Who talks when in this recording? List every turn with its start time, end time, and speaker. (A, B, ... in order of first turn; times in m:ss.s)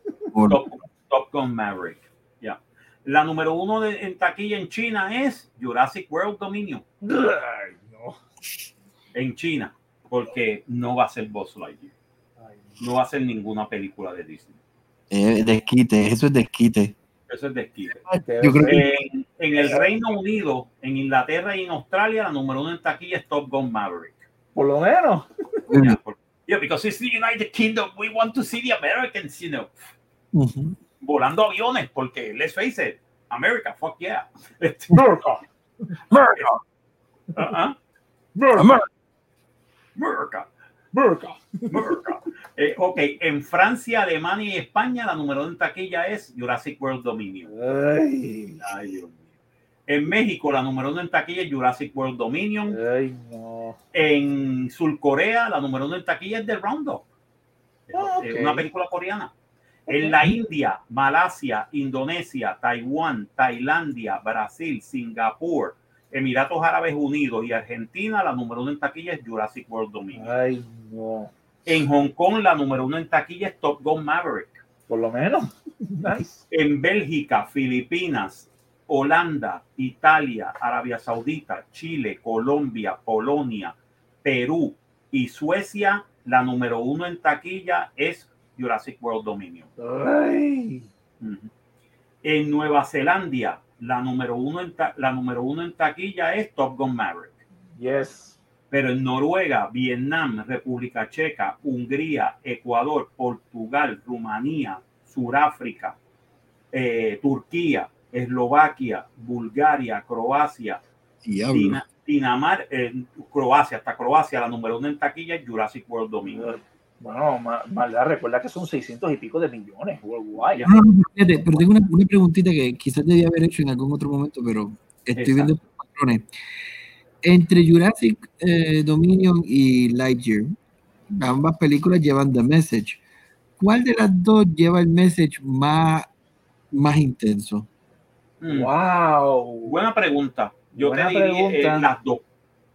0:00.3-0:00.6 A
0:00.5-0:06.8 B
0:07.0-0:08.2 C
0:09.1-0:11.9 B
0:12.4-0:12.8 C
0:12.8-0:14.6 B
0:15.1-0:16.9 A
0:17.3-0:18.0 B
0:17.9-0:18.8 A
0:18.2-0:18.9 C
0:18.6-0:24.2 B
0:19.6-0:19.8 C
0:24.5-0:25.6 C
0:25.7-0:26.0 A
0:25.7-0:29.8 B
0:30.3-0:30.8 A
0:31.0-0:35.3 B
0:34.9-0:35.9 C
0:36.1-0:36.5 B
0:36.1-0:36.6 A
0:37.3-0:37.8 B
0:38.3-0:38.7 C
0:38.5-0:38.9 A
0:40.0-0:40.5 B
0:40.9-0:42.0 C
0:41.7-0:47.5 B
0:47.5-0:48.6 C
0:48.6-0:49.2 B
0:49.9-0:52.8 B
0:52.7-0:53.8 C
0:53.9-0:57.0 B
0:57.9-0:59.3 B
0:57.9-0:58.7 C
0:59.9-1:10.3 B
0:59.9-1:00.3 C
1:10.1-1:11.3 C
1:11.6-1:14.6 B
1:14.9-1:16.4 C
1:16.5-1:29.7 B
1:29.8-1:30.9 C
1:31.2-1:31.5 B
1:32.2-1:37.4 B
1:37.8-1:38.4 C
1:38.7-1:46.0 B
1:46.7-1:50.8 B
1:51.2-1:51.8 A
1:51.5-1:56.6 B
1:56.2-2:00.7 C
2:00.5-2:00.7 B
2:00.6-2:06.2 A
2:05.2-2:05.6 B
2:07.2-2:10.5 A
2:11.1-2:13.0 A
2:13.6-2:16.1 A
2:16.7-2:17.7 A
2:18.4-2:18.7 B
2:18.5-2:19.8 C
2:19.6-2:22.2 B
2:20.7-2:21.9 C